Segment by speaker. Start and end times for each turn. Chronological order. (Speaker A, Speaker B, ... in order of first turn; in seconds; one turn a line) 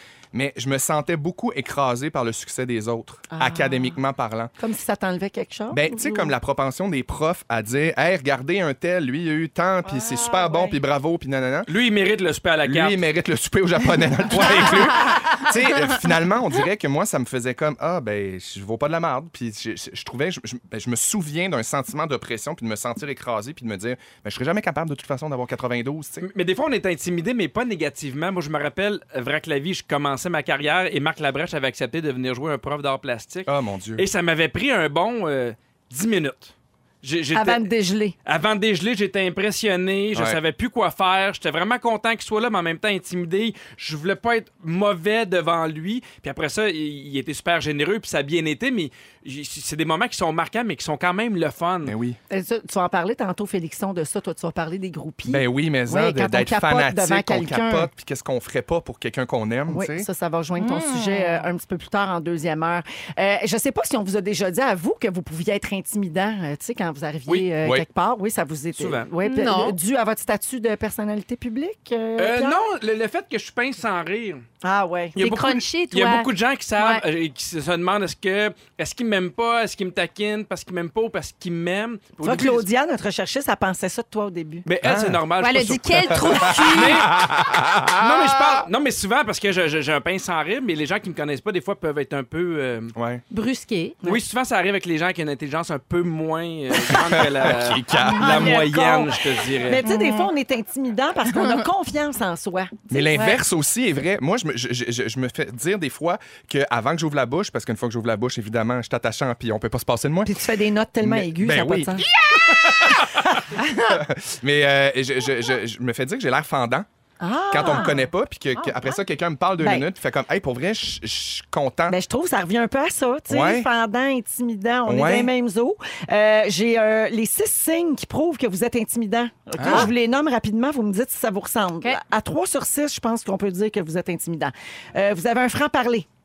Speaker A: 0.3-4.5
Speaker B: 3.3-4.0
Speaker B: 4.6-6.3
Speaker A: 5.7-11.7
Speaker B: 9.9-10.8
Speaker C: 11.7-13.0
Speaker A: 12.7-26.2
Speaker C: 14.3-14.8
Speaker C: 26.2-37.7
Speaker A: 33.5-34.0
Speaker B: 37.3-38.1
Speaker C: 38.2-51.9
Speaker A: 40.1-40.4
Speaker A: 51.8-52.2
Speaker B: 52.3-57.9
Speaker A: 55.3-60.1
Speaker B: 59.7-72.6
Speaker D: 60.6-61.5
Speaker A: 67.6-67.9
Speaker C: 68.8-69.1
Speaker D: 69.2-69.8
Speaker C: 72.2-74.4
Speaker B: 74.6-75.2
Speaker C: 75.2-82.7
Speaker D: 75.2-77.0
Speaker B: 82.2-84.7
Speaker C: 84.7-87.2
Speaker A: 84.8-85.2
Speaker D: 85.4-87.0
Speaker A: 86.3-88.7
Speaker C: 88.0-92.9
Speaker A: 93.0-93.2
Speaker D: 93.3-94.0
Speaker C: 94.0-99.9
Speaker A: 96.9-98.5
Speaker B: 98.1-103.3
Speaker D: 99.8-100.3
Speaker A: 102.9-110.3
Speaker D: 103.1-103.4
Speaker B: 110.2-112.1
Speaker A: 111.0-113.1
Speaker D: 113.6-114.0
Speaker A: 113.9-116.9
Speaker B: 117.2-117.9
Speaker A: 117.5-122.0
Speaker D: 117.7-119.0
Speaker B: 119.6-119.9
Speaker B: 121.9-136.1
Speaker A: 123.3-123.7
Speaker A: 124.9-125.3
Speaker A: 129.6-129.9